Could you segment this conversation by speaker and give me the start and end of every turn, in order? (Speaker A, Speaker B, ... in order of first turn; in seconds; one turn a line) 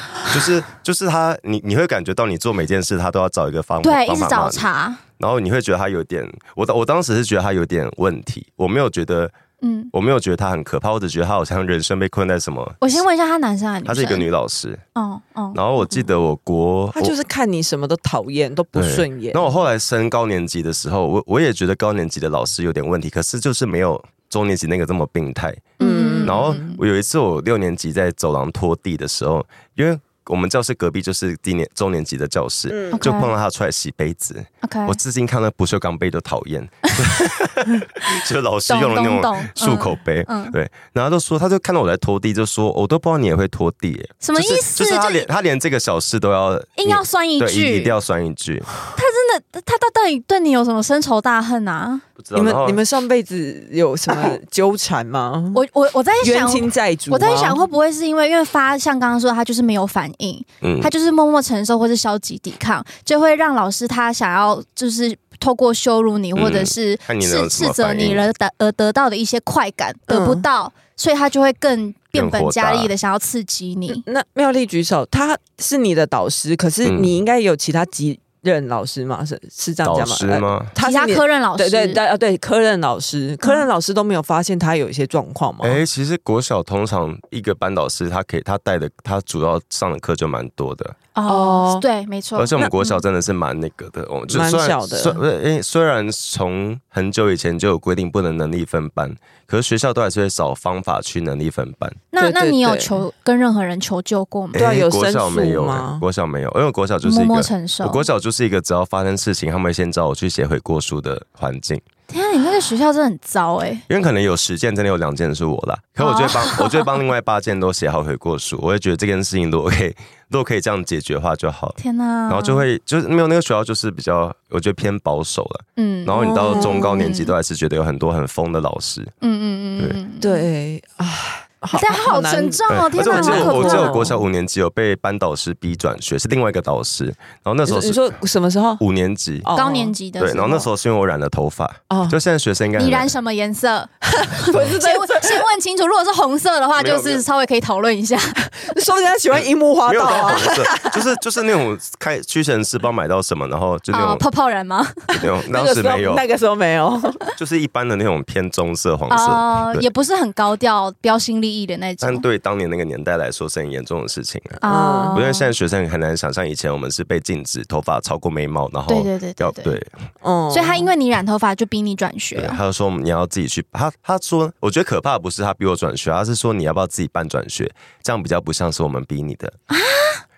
Speaker A: 0.3-4.6
Speaker B: 3.8-5.0
Speaker A: 5.2-9.3
Speaker B: 9.6-9.9
Speaker A: 9.9-13.0
Speaker B: 12.8-14.3
Speaker A: 13.9-14.8
Speaker B: 14.9-16.0
Speaker A: 15.5-17.2
Speaker C: 16.9-19.5
Speaker A: 18.8-25.7
Speaker B: 25.8-26.8
Speaker C: 25.8-26.8
Speaker A: 26.2-48.7
Speaker C: 32.7-33.0
Speaker B: 32.9-33.3
Speaker B: 34.6-35.0
Speaker B: 38.7-40.6
Speaker B: 44.2-45.3
Speaker B: 46.8-48.0
Speaker B: 49.0-52.0
Speaker A: 52.2-52.8
Speaker C: 52.3-55.6
Speaker B: 55.5-74.0
Speaker C: 56.2-57.6
Speaker A: 60.6-60.9
Speaker A: 66.4-68.3
Speaker C: 70.1-70.5
Speaker A: 72.1-72.9
Speaker C: 73.9-85.8
Speaker A: 76.8-77.1
Speaker A: 79.8-80.7
Speaker B: 80.8-82.0
Speaker A: 85.6-91.0
Speaker B: 91.2-93.0
Speaker C: 91.3-91.8
Speaker A: 92.4-102.0
Speaker C: 94.3-95.2
Speaker B: 102.1-104.6
Speaker C: 102.2-103.0
Speaker A: 104.5-111.8
Speaker C: 104.5-106.0
Speaker B: 107.0-108.0
Speaker B: 112.1-113.8
Speaker A: 113.9-129.1
Speaker B: 116.0-117.0
Speaker B: 121.8-122.7
Speaker B: 125.8-127.3
Speaker C: 126.5-126.8
Speaker B: 129.2-130.5
Speaker C: 130.2-134.2
Speaker B: 131.7-134.1
Speaker A: 132.7-138.0
Speaker C: 137.7-138.8
Speaker A: 138.8-139.5
Speaker C: 139.4-139.9
Speaker B: 139.5-140.7
Speaker A: 140.2-143.1
Speaker C: 141.9-142.2
Speaker B: 142.8-148.6
Speaker C: 144.1-145.4
Speaker A: 146.8-147.2
Speaker C: 148.6-151.0
Speaker A: 149.4-154.2
Speaker B: 153.9-155.1
Speaker A: 155.2-156.2
Speaker C: 155.5-157.2
Speaker A: 157.4-159.9
Speaker B: 159.1-162.2
Speaker A: 162.0-164.6
Speaker B: 164.6-165.5
Speaker C: 164.6-165.2
Speaker A: 165.1-169.9
Speaker B: 168.9-169.8
Speaker C: 170.2-170.9
Speaker B: 170.5-172.6
Speaker A: 172.4-179.6
Speaker B: 179.7-180.2